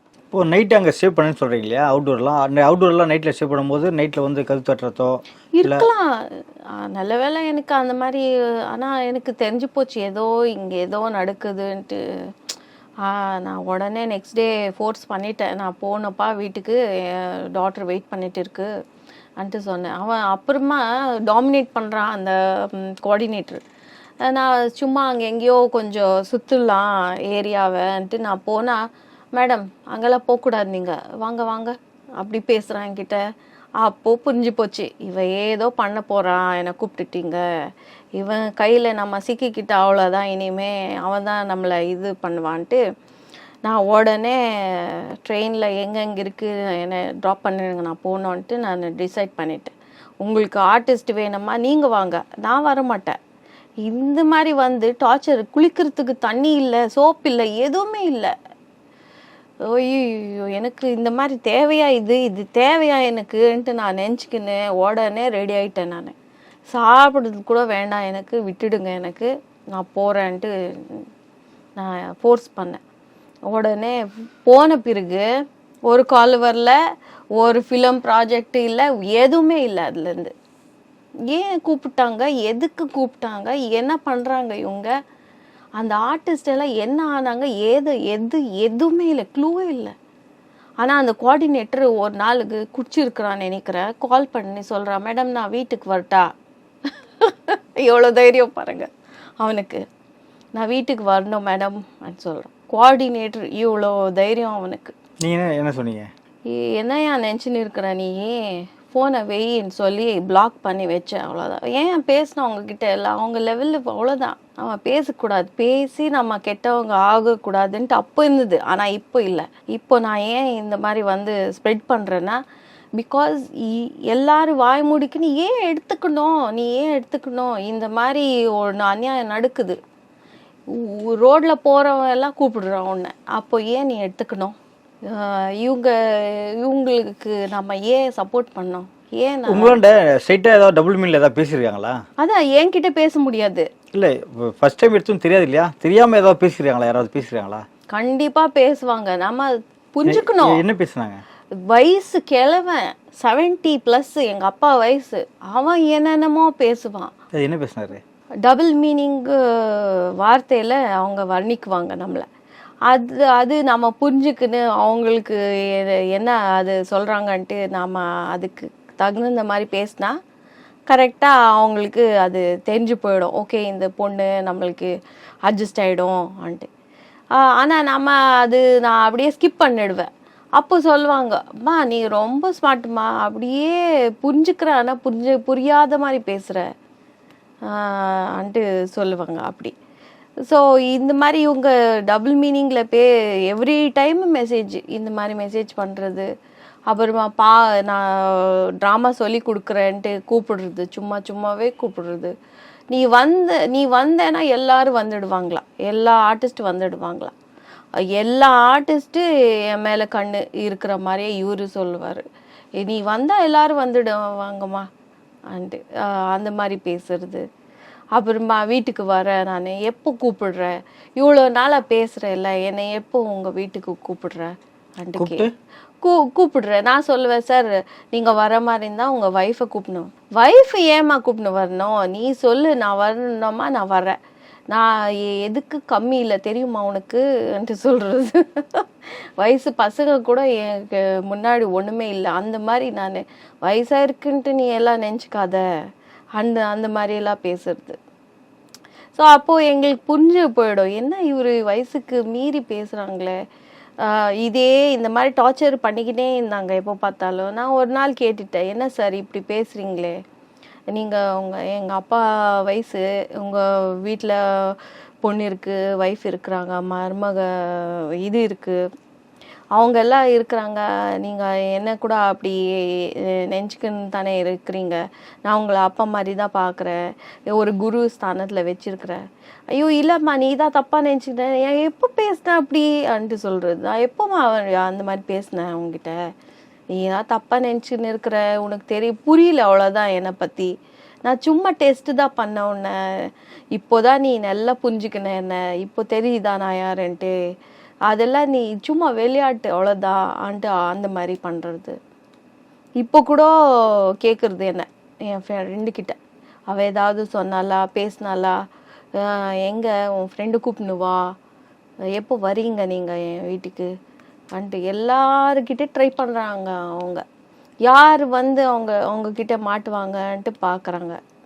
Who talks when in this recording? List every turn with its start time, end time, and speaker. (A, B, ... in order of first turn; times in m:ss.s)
0:00.3-0:05.8 A
0:05.6-0:06.0 B
0:06.7-0:12.0 B
0:13.0-0:18.7 B
0:19.4-0:23.6 B
0:24.2-0:28.8 B
0:29.3-0:33.2 B
0:33.8-0:37.4 B
0:38.2-0:42.8 B
0:43.6-0:53.2 B
0:53.8-0:58.3 B
0:59.6-1:06.1 B
1:06.7-1:11.0 B
1:11.8-1:12.8 B
1:13.5-1:15.2 B
1:15.9-1:16.8 B
1:17.4-1:20.3 B
1:21.3-1:24.9 B
1:25.8-1:29.9 B
1:30.8-1:36.3 B
1:37.2-1:38.9 B
1:39.4-1:39.8 B
1:40.5-1:44.9 B
1:45.2-1:46.1 A
1:46.5-1:48.4 B
1:48.9-2:02.4 B
2:03.0-2:09.8 B
2:10.7-2:14.5 B
2:15.1-2:19.8 B
2:19.5-2:22.0 A
2:22.2-2:23.7 B
2:23.9-2:27.6 A
2:27.9-2:30.6 B
2:30.0-2:31.2 A
2:31.7-2:37.1 B
2:37.3-2:38.0 A
2:38.4-2:42.2 B
2:42.9-2:50.2 B
2:50.9-2:54.9 B
2:55.4-2:56.7 B
2:57.4-3:06.6 B
3:07.7-3:09.7 B
3:10.4-3:16.3 B
3:16.9-3:22.3 B
3:22.9-3:27.3 B
3:28.1-3:32.2 B
3:32.8-3:34.9 B
3:35.5-3:37.4 B
3:38.1-3:45.4 B
3:45.2-3:45.5 A
3:46.0-3:54.2 B
3:54.7-3:58.8 B
3:59.4-4:05.6 B
4:06.4-4:08.0 B
4:09.2-4:13.4 B
4:14.0-4:20.2 B
4:20.9-4:28.8 B
4:29.7-4:32.6 B
4:33.2-4:36.9 B
4:37.5-4:39.2 B
4:39.7-4:46.2 B
4:46.9-4:50.7 B
4:51.2-4:52.9 B
4:53.7-4:57.3 B
4:58.1-5:02.0 B
5:03.0-5:03.5 B
5:04.2-5:06.2 B
5:06.7-5:08.6 B
5:09.2-5:11.2 B
5:12.1-5:13.9 B
5:14.6-5:17.2 B
5:17.9-5:21.2 B